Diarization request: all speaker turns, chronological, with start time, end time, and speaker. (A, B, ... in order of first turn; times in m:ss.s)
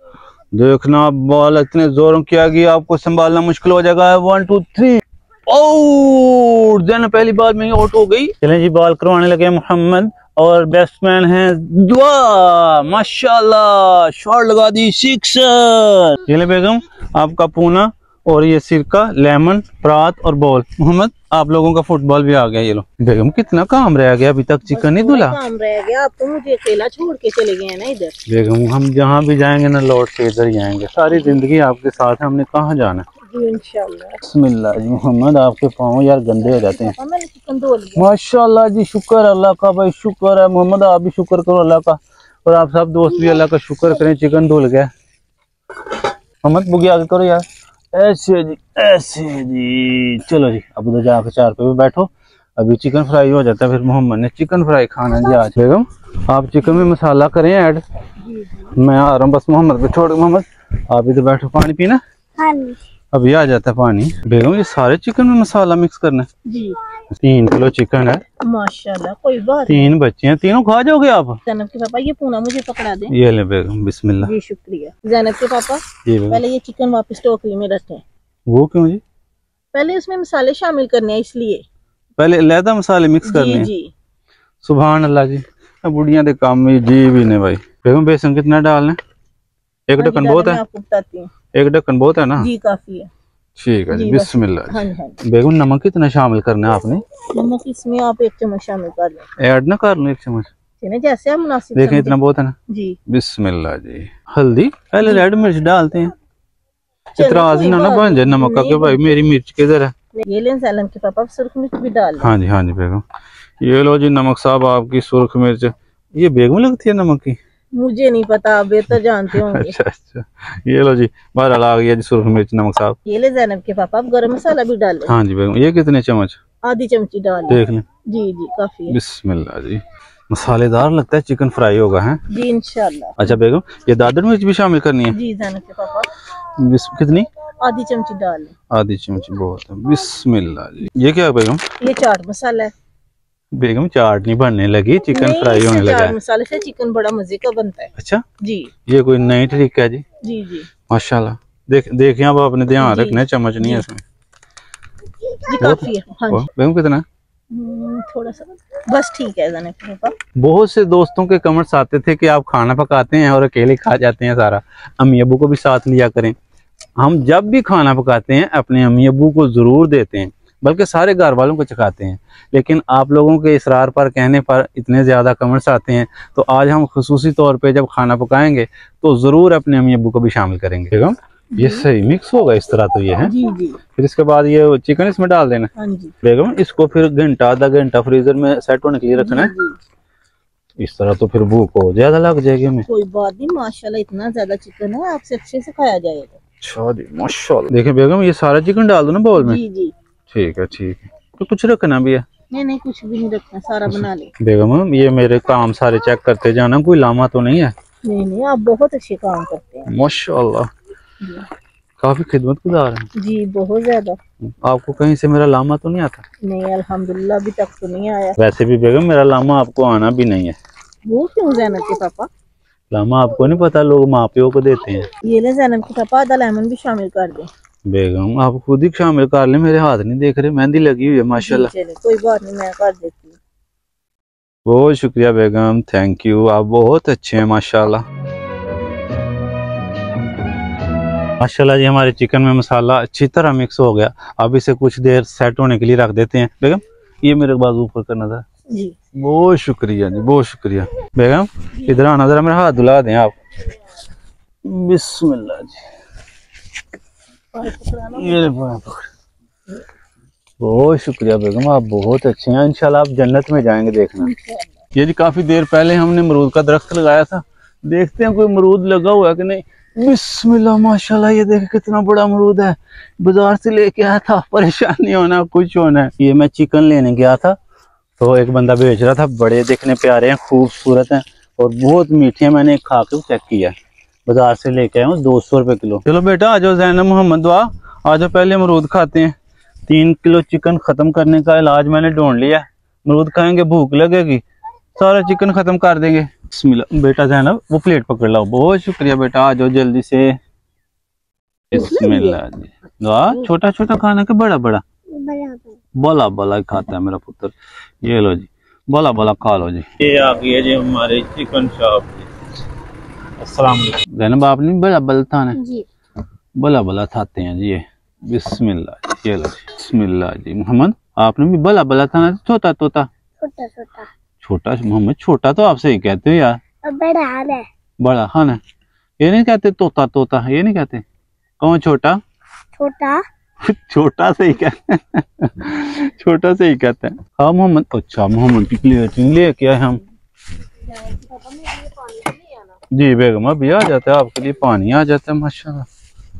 0:00.5-0:25.4 A
0:24.7-0:28.2 B
0:28.3-0:33.0 A
0:33.3-0:34.2 B
0:34.2-0:36.9 A
0:36.4-0:38.0 B
0:38.0-0:44.9 A
0:46.4-0:57.8 A
0:58.3-0:58.6 B
0:58.6-1:02.0 A
1:02.4-1:02.8 C
1:03.1-1:06.3 A
1:06.5-1:06.8 B
1:07.2-1:08.2 A
1:08.4-1:09.9 B
1:09.7-1:11.4 A
1:11.5-1:13.1 B
1:13.1-1:14.3 A
1:14.2-1:18.0 B
1:16.0-1:16.4 A
1:18.5-1:19.0 A
1:19.7-1:21.6 B
1:22.2-1:23.7 A
1:23.2-1:23.9 B
1:24.6-1:29.0 A
1:29.9-1:30.6 A
1:30.0-1:31.3 B
1:31.5-1:32.5 A
1:32.4-1:33.1 B
1:33.6-1:37.0 A
1:33.9-1:35.2 B
1:37.3-1:39.2 B
1:39.4-1:40.5 A
1:40.8-1:42.2 B
1:41.8-1:42.5 A
1:42.7-1:43.0 B
1:43.1-1:46.1 A
1:47.2-1:49.2 B
1:47.2-1:49.9 A
1:50.2-1:52.3 B
1:52.2-1:53.0 A
1:53.6-1:57.4 A
1:57.8-1:59.8 B
1:59.3-2:03.0 A
2:03.0-2:05.1 B
2:05.1-2:06.4 A
2:06.6-2:09.0 B
2:07.5-2:07.8 A
2:08.9-2:12.2 A
2:12.3-2:13.3 B
2:13.2-2:15.2 A
2:15.1-2:16.1 B
2:16.6-2:17.3 A
2:17.6-2:18.5 B
2:18.7-2:21.6 A
2:21.8-2:22.7 B
2:23.5-2:26.2 A
2:25.1-2:28.7 B
2:28.0-2:28.2 A
2:28.9-2:30.0 A
2:30.2-2:30.7 B
2:30.9-2:34.0 A
2:32.8-2:33.8 B
2:35.4-2:36.5 B
2:35.6-2:37.0 A
2:37.5-2:40.1 B
2:40.4-2:46.3 A
2:47.0-3:03.3 A
3:01.6-3:01.9 B
3:03.2-3:03.8 B
3:03.9-3:05.7 A
3:05.8-3:06.1 B
3:06.2-3:09.5 A
3:09.1-3:09.8 B
3:10.8-3:12.8 A
3:12.9-3:16.4 B
3:16.6-3:19.6 A
3:19.3-3:19.9 B
3:20.3-3:22.2 A
3:22.5-3:24.3 B
3:23.9-3:27.7 A
3:28.1-3:29.9 B
3:29.9-3:30.7 A
3:31.2-3:31.5 B
3:32.0-3:33.1 A
3:33.2-3:34.2 B
3:34.5-3:36.2 A
3:36.4-3:38.4 B
3:38.4-3:40.6 A
3:41.0-3:42.3 B
3:42.9-3:45.1 A
3:45.2-3:47.5 B
3:47.8-3:51.7 A
3:51.3-3:53.4 B
3:54.6-3:58.0 A
4:01.4-4:08.4 A
4:09.1-4:13.3 A
4:11.7-4:12.0 B
4:14.6-4:15.8 A
4:17.5-4:18.5 B
4:18.1-4:19.1 A
4:20.6-4:24.3 A
4:24.2-4:24.7 B
4:24.9-4:37.6 A
4:38.2-4:43.7 A
4:44.3-4:49.3 A
4:49.9-4:54.4 A
4:55.0-5:00.4 A
5:01.7-5:04.8 A
5:01.7-5:02.4 B
5:05.1-5:05.7 C
5:06.0-5:12.3 A
5:13.4-5:15.6 A
5:15.5-5:15.8 C
5:16.6-5:23.1 A
5:23.4-5:24.1 C
5:24.4-5:26.6 A
5:26.8-5:27.7 C
5:28.0-5:28.6 A
5:29.2-5:31.0 A
5:31.6-5:32.2 A
5:32.8-5:33.2 C
5:33.6-5:40.0 A
5:41.2-5:42.4 C
5:42.9-5:45.9 A